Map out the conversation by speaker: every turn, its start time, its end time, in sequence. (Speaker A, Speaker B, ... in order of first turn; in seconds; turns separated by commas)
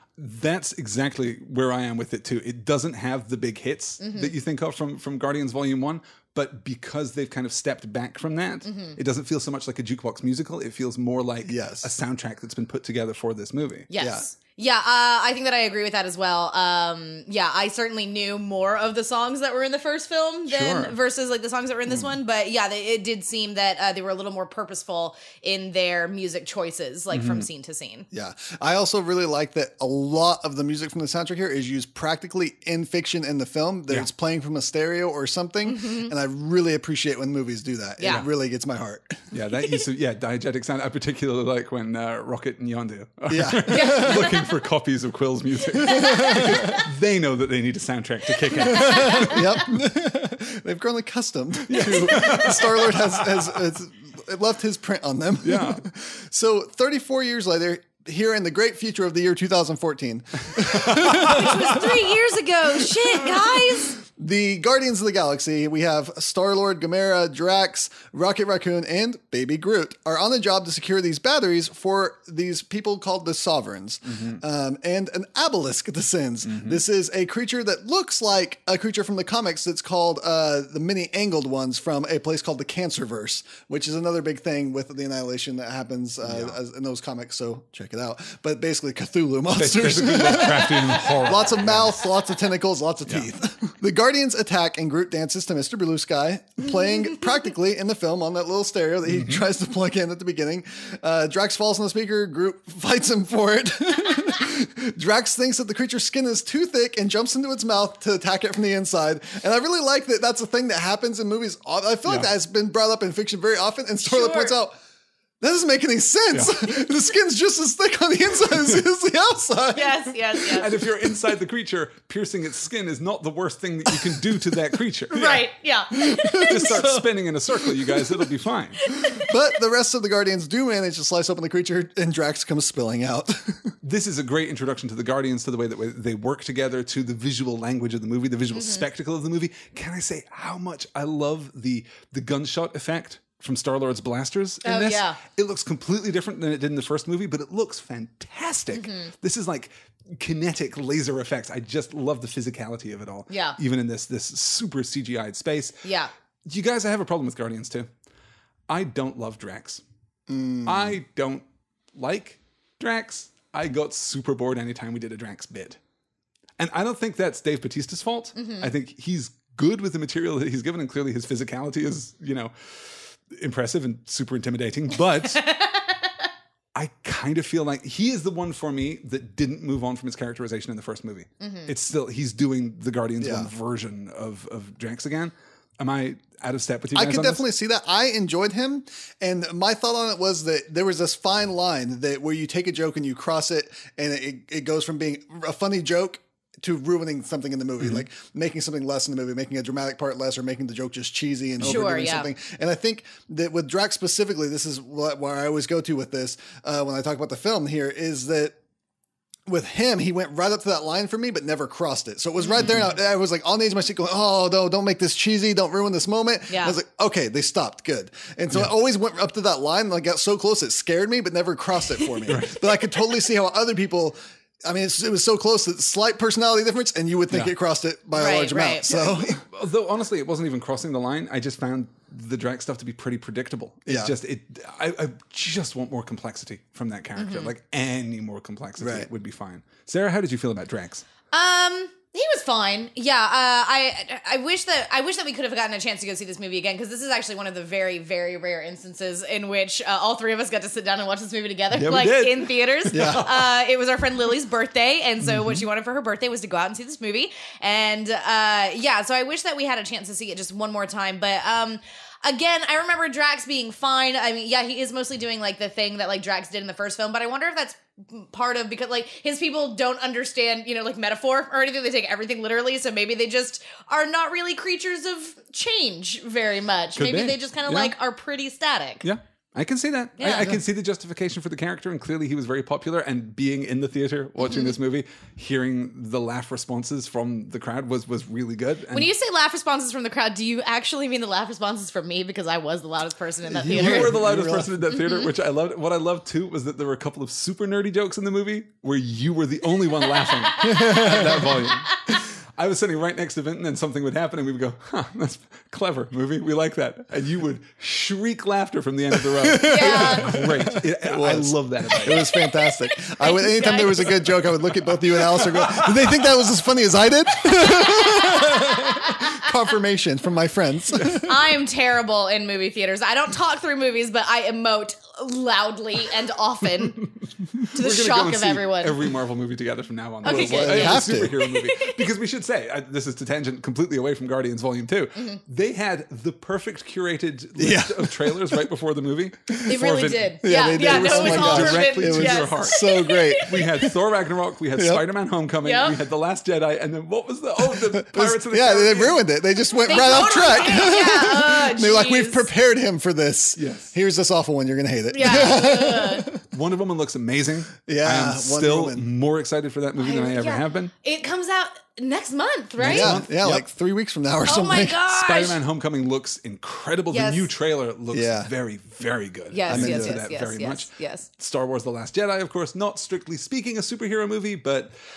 Speaker A: 0.2-13.9, Speaker B: 4.0-4.3, Speaker B: 8.7-8.9, Speaker C: 11.4-11.9, Speaker B: 13.9-28.1, Speaker C: 14.0-14.2, Speaker A: 20.5-20.9, Speaker A: 27.1-27.4, Speaker C: 28.1-39.2, Speaker B: 35.6-36.1, Speaker B: 38.0-38.2, Speaker A: 39.3-49.5, Speaker C: 43.3-44.3, Speaker B: 43.7-44.4, Speaker B: 45.7-46.8, Speaker C: 45.9-46.8, Speaker B: 48.7-49.4, Speaker C: 48.7-61.9, Speaker A: 51.7-53.5, Speaker B: 51.7-52.4, Speaker A: 55.4-55.8, Speaker B: 60.8-64.0, Speaker A: 60.9-61.2, Speaker C: 63.2-114.8, Speaker A: 74.1-74.4, Speaker A: 76.4-76.8, Speaker A: 86.2-86.6, Speaker A: 89.5-92.0, Speaker A: 99.1-99.4, Speaker B: 114.0-114.5, Speaker C: 115.4-120.9, Speaker B: 119.7-120.7, Speaker A: 120.6-125.4, Speaker C: 123.9-124.2, Speaker B: 125.1-126.8, Speaker C: 125.9-127.0, Speaker A: 126.4-128.8, Speaker C: 127.6-128.0, Speaker B: 128.8-129.3, Speaker C: 129.1-133.7, Speaker A: 133.8-155.8, Speaker B: 138.5-138.8, Speaker B: 144.6-145.2, Speaker B: 148.7-149.1, Speaker B: 153.3-153.6, Speaker B: 155.8-156.1, Speaker A: 156.5-157.9, Speaker A: 158.7-159.8, Speaker C: 160.3-161.0, Speaker A: 160.6-161.4, Speaker A: 161.9-165.8, Speaker A: 166.6-175.4, Speaker B: 168.4-168.7, Speaker B: 175.3-176.1, Speaker A: 176.7-187.4, Speaker B: 181.4-181.7, Speaker C: 183.2-183.5, Speaker C: 186.9-208.6, Speaker B: 201.6-202.3, Speaker C: 209.5-229.4, Speaker B: 212.4-212.9, Speaker B: 216.5-216.8, Speaker A: 222.2-222.6, Speaker A: 227.3-227.5, Speaker B: 228.1-228.9, Speaker A: 228.9-241.0, Speaker C: 233.9-234.1, Speaker B: 237.2-237.5, Speaker C: 238.8-239.1, Speaker B: 241.3-279.0, Speaker A: 251.8-253.5, Speaker C: 252.9-253.3, Speaker A: 255.2-255.6, Speaker A: 276.9-277.9, Speaker A: 279.0-289.1, Speaker B: 280.2-280.6, Speaker B: 284.4-284.7, Speaker B: 288.9-294.1, Speaker C: 293.5-294.7, Speaker A: 293.6-312.3, Speaker B: 300.0-302.2, Speaker C: 300.6-301.6, Speaker C: 309.2-321.3, Speaker B: 309.6-310.4, Speaker B: 311.9-314.3, Speaker A: 315.2-315.9, Speaker B: 317.4-319.5, Speaker B: 321.0-327.0, Speaker A: 327.0-349.2, Speaker B: 327.7-328.9, Speaker B: 330.2-332.0, Speaker C: 330.2-331.4, Speaker C: 337.6-338.6, Speaker B: 339.6-343.9, Speaker C: 340.4-343.5, Speaker C: 344.8-345.0, Speaker B: 345.6-345.9, Speaker C: 347.6-356.4, Speaker B: 349.8-352.5, Speaker A: 353.6-353.9, Speaker B: 355.1-356.3, Speaker A: 356.5-360.9, Speaker C: 357.9-359.1, Speaker B: 360.0-363.1, Speaker A: 362.8-363.6, Speaker C: 362.8-365.0, Speaker B: 364.4-365.6, Speaker A: 365.1-374.9, Speaker B: 367.1-367.5, Speaker C: 368.1-368.5, Speaker B: 369.5-371.3, Speaker C: 369.7-370.2